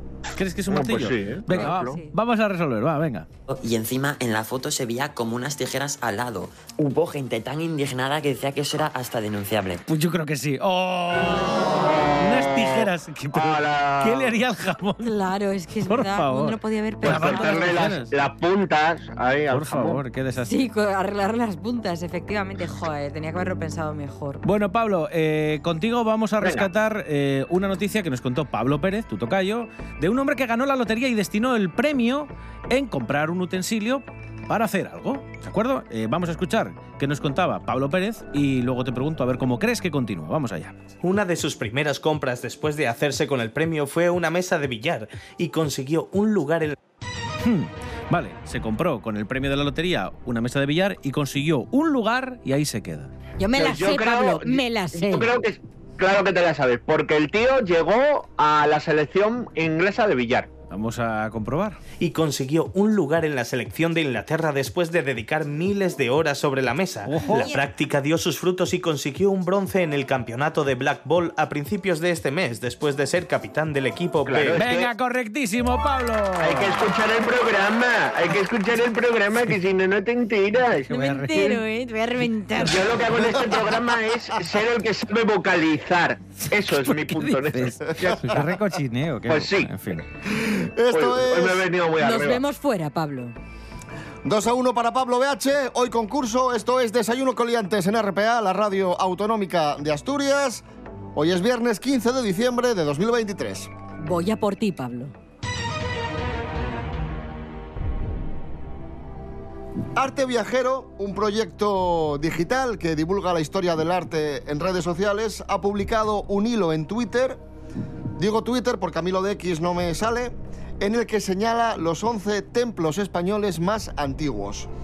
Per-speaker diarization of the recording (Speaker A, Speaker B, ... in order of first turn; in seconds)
Speaker A: 0.4-3.3, 9.9-15.2, 15.9-18.1, 19.5-20.7, 24.4-40.8, 47.4-53.1, 60.7-61.8, 67.1-67.5, 74.4-76.9, 80.9-81.6, 86.8-90.0
Speaker B: 0.7-2.0, 12.3-14.4, 17.0-20.0, 26.4-26.7, 53.6-60.5, 74.2-74.9, 76.4-80.9, 82.6-88.5, 89.3-89.7, 90.9-92.4
Speaker C: 1.5-2.1, 15.0-17.9, 20.4-24.4, 53.4-55.3, 67.3-67.6, 80.9-82.9, 92.0-93.3, 104.0-105.1
Speaker D: 3.5-9.8
Speaker E: 41.0-46.8, 62.0-74.6
Speaker F: 90.3-91.7, 94.2-103.7, 110.0-117.4, 118.2-124.7